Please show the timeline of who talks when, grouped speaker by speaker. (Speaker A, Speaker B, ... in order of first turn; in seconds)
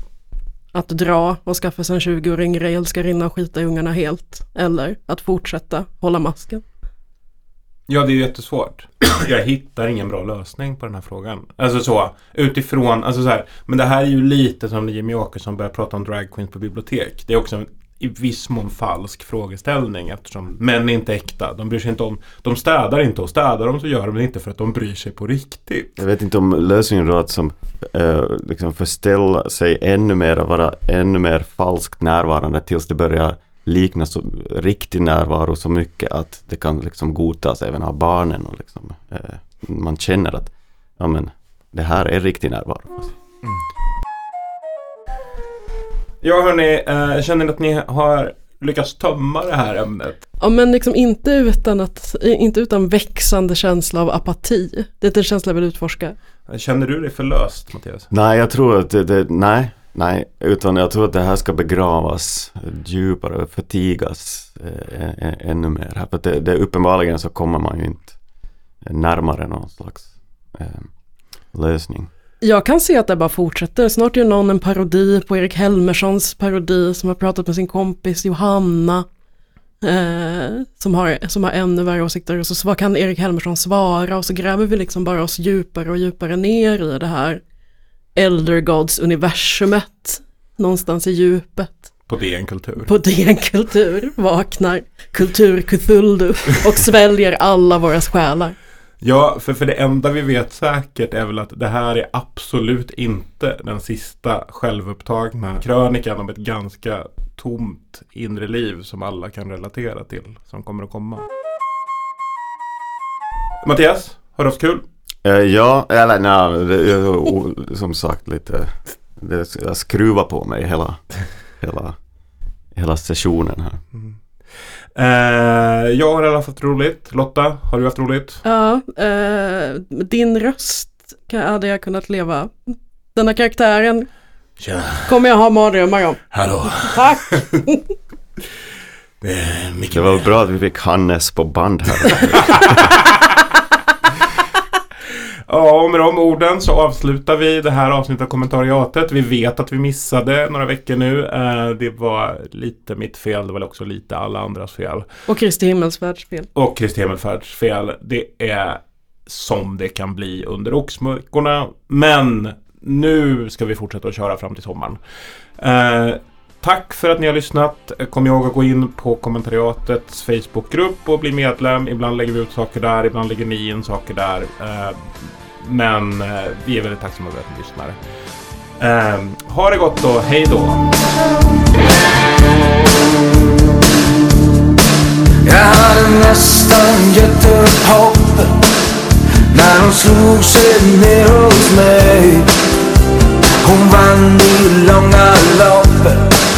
Speaker A: 0.7-6.6, 50.4-56.2, 72.4-79.0, 79.8-87.4, 88.2-91.9, 92.8-98.5, 128.4-134.1, 135.1-137.8, 155.3-156.5
Speaker B: 7.9-25.9, 46.2-50.2, 56.5-58.1, 92.1-92.9, 99.0-111.2, 113.6-114.8, 125.0-128.4, 134.6-135.1, 136.3-137.0, 139.2-140.3, 142.1-143.1, 145.5-155.1, 156.5-165.0, 165.6-178.0, 178.8-180.9
Speaker C: 26.0-43.1, 58.1-68.2, 68.8-70.9, 71.5-72.1, 115.2-121.0, 121.6-122.0, 122.7-123.8, 139.9-142.9
Speaker D: 185.4-188.6, 189.5-192.5, 193.6-196.3